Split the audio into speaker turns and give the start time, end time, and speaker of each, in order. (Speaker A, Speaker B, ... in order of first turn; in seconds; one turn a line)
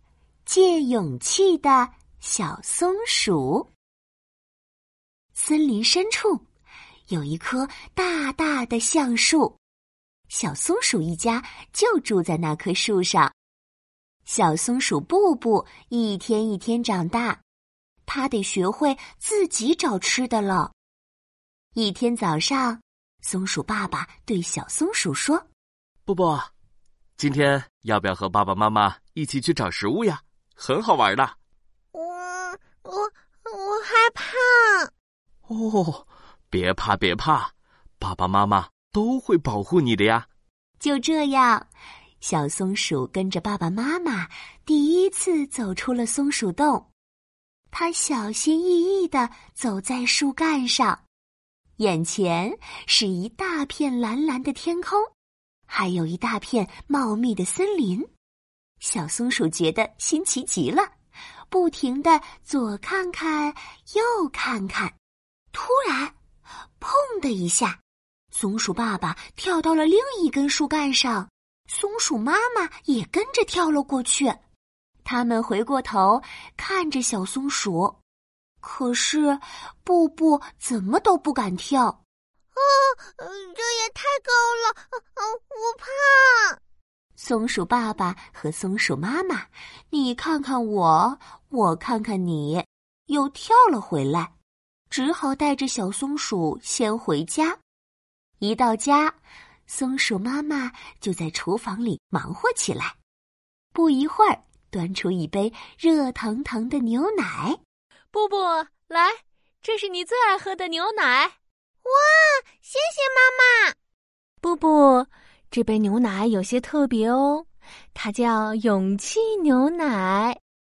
Speaker A: 0.5-3.7
Speaker A: 5.3-6.4
Speaker A: 7.1-9.6
Speaker A: 10.3-13.3
Speaker A: 14.2-17.4
Speaker A: 18.1-20.7
Speaker A: 21.7-25.4
Speaker B: 26.1-26.5
Speaker B: 27.2-31.3
Speaker C: 31.9-34.9
Speaker B: 35.5-40.3
Speaker A: 40.8-41.7
Speaker A: 42.2-46.9
Speaker A: 47.7-51.0
Speaker A: 51.8-55.1
Speaker A: 55.7-58.1
Speaker A: 58.8-60.9
Speaker A: 61.5-64.9
Speaker A: 65.5-66.2
Speaker A: 66.8-67.8
Speaker A: 68.3-74.4
Speaker A: 75.0-78.0
Speaker A: 78.6-82.0
Speaker C: 82.5-86.6
Speaker A: 87.2-94.3
Speaker A: 94.9-97.6
Speaker A: 98.4-99.2
Speaker A: 99.7-103.0
Speaker A: 103.7-107.6
Speaker D: 108.1-111.3
Speaker C: 111.8-113.7
Speaker D: 114.4-120.4